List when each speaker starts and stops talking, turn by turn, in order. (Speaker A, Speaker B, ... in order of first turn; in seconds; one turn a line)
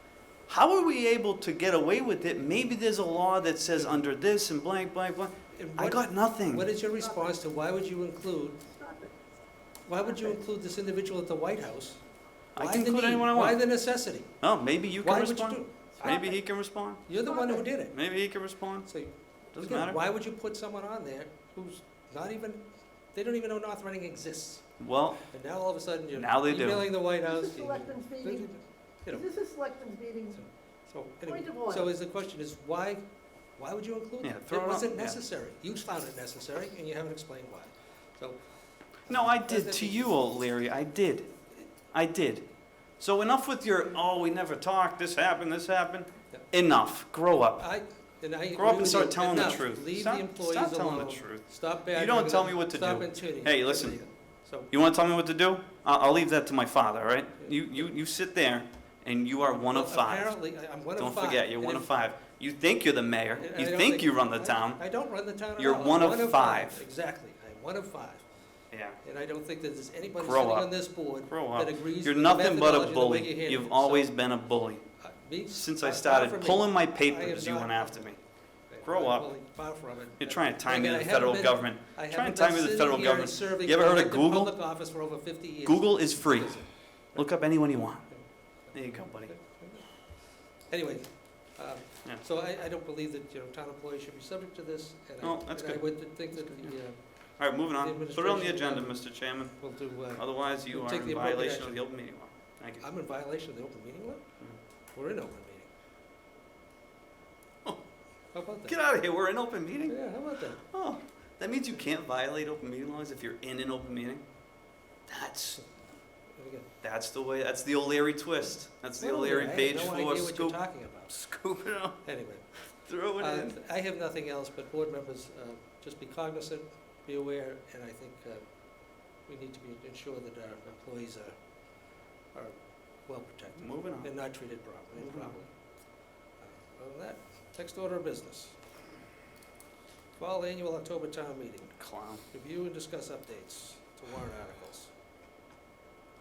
Speaker A: 0.5-6.7
Speaker B: 3.8-4.0
Speaker B: 5.5-8.6
Speaker C: 7.0-7.3
Speaker C: 8.7-9.1
Speaker B: 9.9-12.0
Speaker A: 12.6-13.6
Speaker B: 12.6-14.3
Speaker A: 14.4-17.0
Speaker B: 15.0-16.4
Speaker B: 17.0-17.9
Speaker C: 17.2-17.7
Speaker A: 17.9-18.9
Speaker B: 18.9-22.6
Speaker A: 19.5-20.0
Speaker B: 23.1-24.6
Speaker A: 24.8-25.2
Speaker B: 25.3-29.3
Speaker A: 26.1-26.9
Speaker C: 27.2-28.5
Speaker C: 29.1-30.4
Speaker B: 30.3-33.0
Speaker C: 31.2-31.9
Speaker B: 33.6-38.4
Speaker A: 34.2-35.2
Speaker B: 39.0-40.1
Speaker A: 39.1-41.3
Speaker A: 41.9-42.5
Speaker A: 43.0-47.6
Speaker B: 47.6-54.7
Speaker A: 48.5-54.0
Speaker A: 54.7-60.3
Speaker B: 57.4-57.8
Speaker B: 59.6-61.9
Speaker A: 61.0-64.8
Speaker B: 63.4-68.2
Speaker A: 65.6-66.8
Speaker A: 68.7-69.0
Speaker B: 69.0-74.1
Speaker A: 70.1-70.7
Speaker A: 71.3-74.8
Speaker B: 75.0-101.8
Speaker A: 75.5-78.2
Speaker A: 78.8-79.3
Speaker A: 80.2-84.5
Speaker A: 85.7-88.0
Speaker A: 88.7-89.3
Speaker A: 95.2-95.8
Speaker A: 97.4-99.6
Speaker A: 100.1-102.8
Speaker B: 102.8-104.2
Speaker B: 104.9-105.7
Speaker B: 108.3-108.7
Speaker A: 108.7-110.0
Speaker B: 109.9-110.6
Speaker A: 110.7-114.2
Speaker A: 115.1-115.6
Speaker B: 116.4-116.6
Speaker A: 116.8-120.6
Speaker B: 119.0-121.1
Speaker A: 121.1-122.0
Speaker B: 122.0-122.4
Speaker A: 122.8-123.5
Speaker B: 123.2-131.3
Speaker B: 132.3-135.5
Speaker A: 133.6-134.1
Speaker A: 135.0-135.3
Speaker B: 136.4-138.6
Speaker B: 140.2-141.8
Speaker A: 141.8-142.2
Speaker B: 142.3-144.9